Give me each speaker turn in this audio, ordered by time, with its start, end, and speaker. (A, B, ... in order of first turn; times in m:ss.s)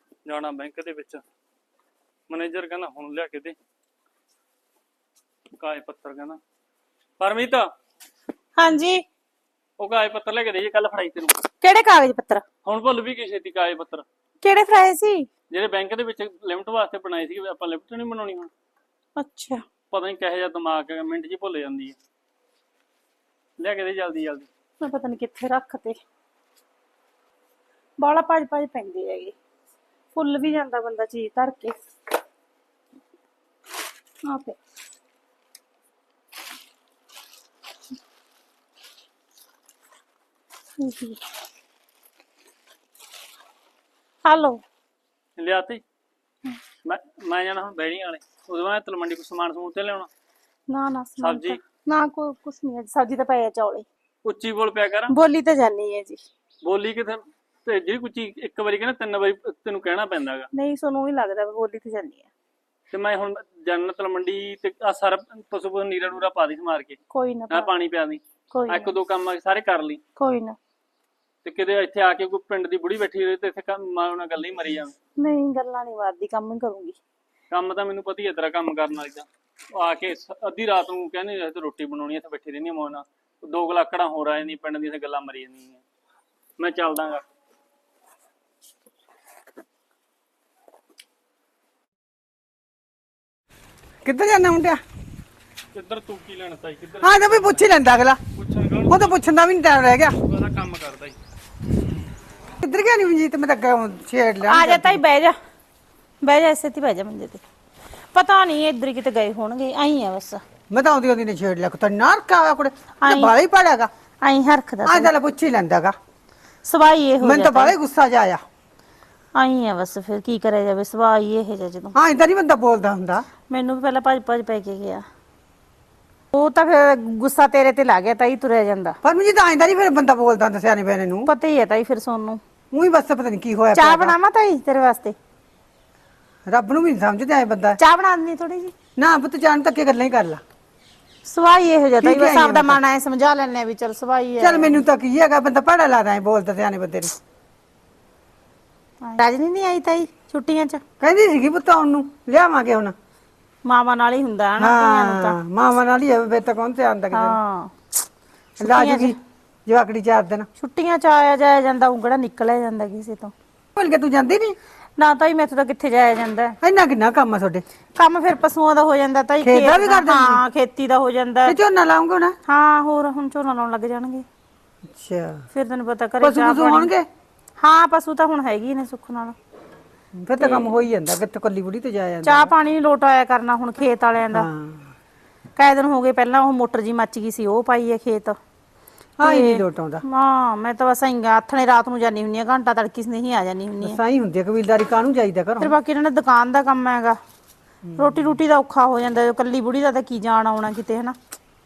0:00.2-0:01.2 A
0:02.3-0:03.6 A
0:05.6-0:06.4 A
0:07.2-0:07.7 A
0:08.6-0:09.0 B
0:09.8-0:11.4 A
0:11.6-0:12.4 B
0:12.6-0:14.0 A
0:14.4-0:15.3 B
0:15.5-0:18.5 A
0:19.2-0:19.6 B
0:19.9-0:22.0 A
0:23.6-0:24.5 A
0:24.8-0:26.0 B
0:28.0-0:29.4 B
0:30.1-0:31.8 B
0:34.2-0:34.6 B
0:40.8-0:41.2 B
0:44.2-0:44.6 B
0:45.4-0:45.8 A
0:46.8-0:50.1 A
0:50.7-0:53.8 B
0:51.2-0:51.6 A
0:54.2-0:55.1 A
0:55.1-0:56.2 B
0:56.6-1:00.5 A
1:00.5-1:02.3 B
1:02.9-1:07.0 A
1:07.1-1:07.7 B
1:07.5-1:10.0 A
1:08.5-1:08.9 B
1:10.2-1:10.6 B
1:11.4-1:15.0 A
1:15.2-1:17.0 B
1:17.5-1:25.8 A
1:26.6-1:27.2 A
1:34.0-1:34.8 C
1:35.7-1:37.7 A
1:37.0-1:38.2 C
1:38.4-1:39.2 A
1:38.9-1:40.2 C
1:40.2-1:41.2 A
1:42.6-1:45.0 C
1:44.4-1:45.4 B
1:46.2-1:47.4 B
1:48.1-1:50.4 B
1:50.7-1:53.9 C
1:53.0-1:53.3 B
1:54.2-1:55.1 B
1:54.8-1:56.0 C
1:56.6-1:57.8 B
1:57.2-1:58.4 C
1:59.3-2:01.9 B
2:02.0-2:03.2 C
2:03.5-2:05.0 B
2:06.3-2:09.0 B
2:09.0-2:11.3 C
2:11.3-2:12.4 B
2:12.7-2:14.2 C
2:13.7-2:15.2 B
2:16.5-2:17.8 C
2:17.8-2:18.7 B
2:19.0-2:20.4 C
2:21.2-2:24.8 B
2:22.0-2:22.8 C
2:24.4-2:27.1 C
2:29.0-2:30.8 B
2:31.0-2:32.9 C
2:33.6-2:35.4 B
2:34.6-2:37.4 C
2:37.1-2:37.7 B
2:38.6-2:39.2 B
2:38.6-2:40.5 C
2:40.6-2:43.3 B
2:43.8-2:44.6 C
2:45.0-2:46.6 B
2:46.6-2:47.6 C
2:47.9-2:51.6 B
2:49.4-2:50.4 C
2:51.5-2:52.4 C
2:52.5-2:54.2 B
2:54.9-2:55.4 C
2:55.5-2:56.9 B
2:56.2-2:57.1 C
2:57.6-2:59.4 B
3:00.2-3:02.5 C
3:00.4-3:00.8 B
3:02.2-3:04.5 B
3:04.3-3:04.9 C
3:05.6-3:08.4 B
3:09.2-3:10.0 C
3:09.2-3:14.0 B
3:13.8-3:15.7 C
3:15.6-3:17.2 B
3:17.9-3:18.3 C
3:18.0-3:21.2 B